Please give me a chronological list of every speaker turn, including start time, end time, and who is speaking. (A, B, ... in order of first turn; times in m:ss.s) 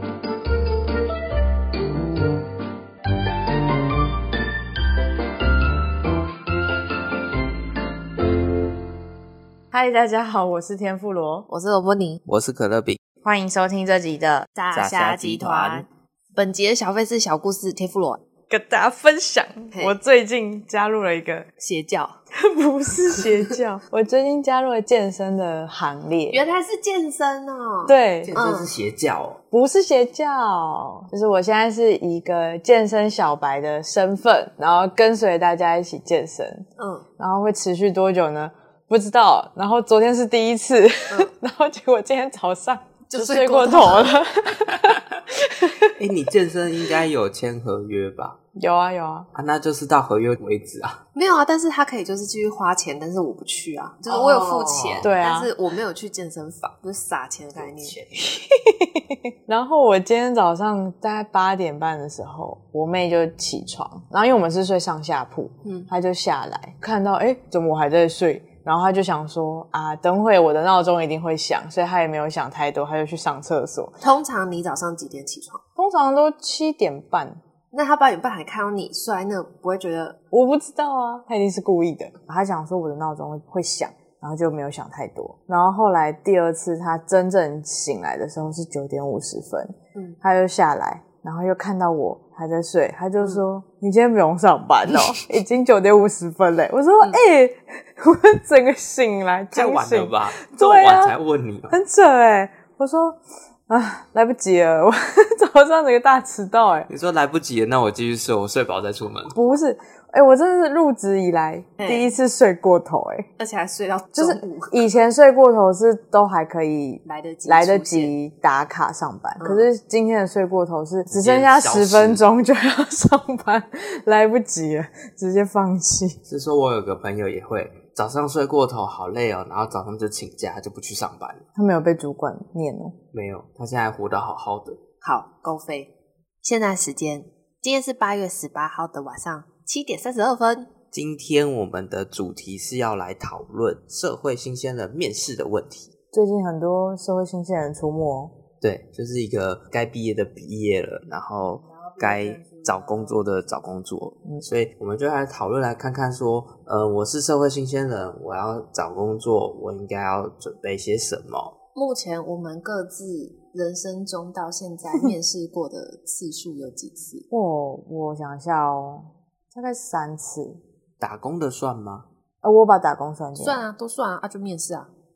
0:09.7-0:11.5 A
0:11.5-0:12.2 B
0:12.3-0:13.0 C
0:13.2-0:14.5 A
0:14.6-0:18.2 B
0:14.7-0:15.9 C
0:18.5-0:21.5 A
0:21.6-0:22.2 B
0:22.4-0:26.4 A
0:26.3-0:28.7 B
0:27.9-0:28.4 A
0:28.2-0:29.4 C
0:29.5-0:36.7 A
0:36.8-0:37.1 B
0:37.2-0:45.9 A
0:43.1-0:44.1 B
0:45.9-0:48.4 C
0:48.6-0:49.3 A
0:49.3-0:51.0 C
0:51.2-0:58.0 B
0:54.1-0:55.1 C
0:55.0-0:55.5 A
0:57.6-0:58.4 C
0:58.2-1:14.0 A
1:05.6-1:05.9 B
1:14.0-1:15.6 B
1:15.8-1:17.4 A
1:17.7-1:20.2 B
1:20.3-1:41.2 A
1:39.5-1:41.8 C
1:41.7-1:46.9 A
1:46.9-1:49.4 C
1:49.3-1:53.3 A
1:51.8-1:52.1 B
1:53.4-1:54.9 B
1:54.2-2:06.2 A
1:57.0-1:58.2 B
1:59.4-1:59.7 B
2:01.1-2:02.2 C
2:06.3-2:11.5 C
2:11.6-2:13.0 A
2:13.1-2:14.8 C
2:15.0-2:20.7 B
2:20.9-2:25.9 C
2:26.1-2:28.4 A
2:28.6-2:41.6 C
2:31.6-2:33.2 A
2:41.8-2:47.2 B
2:47.3-2:50.6 A
2:51.0-2:52.1 C
2:52.4-2:53.6 A
2:53.4-2:54.9 B